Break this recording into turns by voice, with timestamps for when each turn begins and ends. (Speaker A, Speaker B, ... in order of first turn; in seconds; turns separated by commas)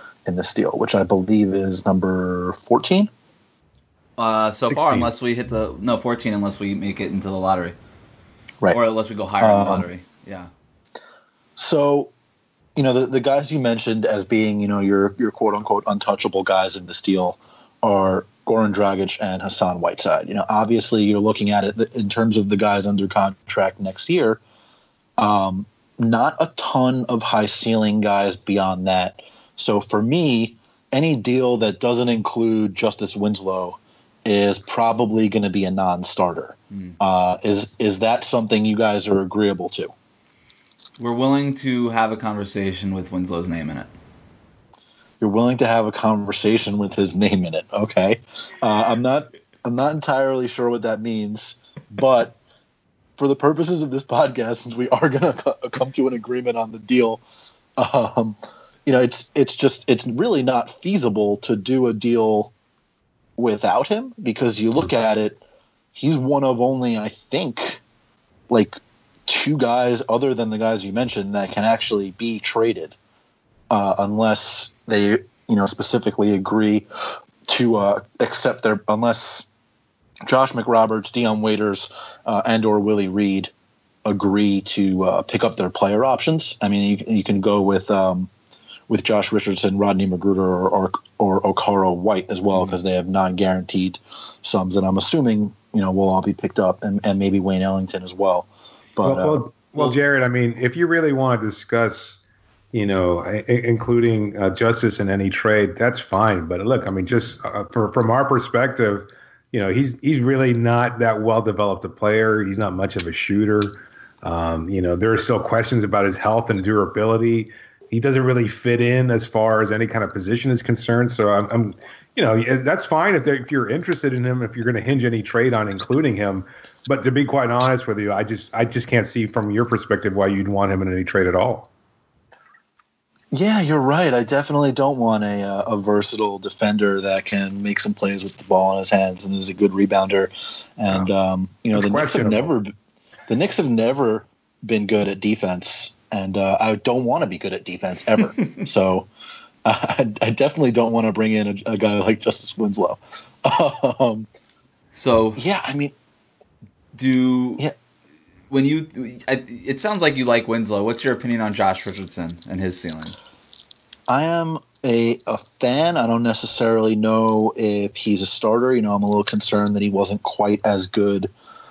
Speaker A: 0.2-3.1, Speaker B: 4.2-7.8, Speaker C: 4.7-5.1, Speaker B: 8.7-10.5, Speaker A: 9.4-9.9, Speaker A: 11.6-12.1, Speaker A: 12.8-24.4, Speaker A: 25.2-39.9, Speaker B: 36.7-37.0, Speaker B: 41.0-43.9, Speaker A: 45.2-52.4, Speaker A: 53.2-57.2, Speaker A: 57.8-62.5, Speaker A: 63.4-65.4, Speaker A: 66.0-67.8, Speaker A: 68.5-73.0, Speaker A: 73.7-76.9, Speaker A: 77.5-79.5, Speaker A: 80.3-83.5, Speaker A: 84.0-88.3, Speaker A: 88.9-99.4, Speaker C: 99.0-102.2, Speaker C: 102.7-131.7, Speaker A: 133.3-142.7, Speaker C: 141.7-142.5, Speaker A: 143.3-149.1, Speaker A: 149.7-154.3, Speaker B: 154.9-155.4, Speaker A: 155.4-155.9, Speaker B: 156.9-157.7, Speaker B: 158.5-163.2, Speaker A: 164.1-171.3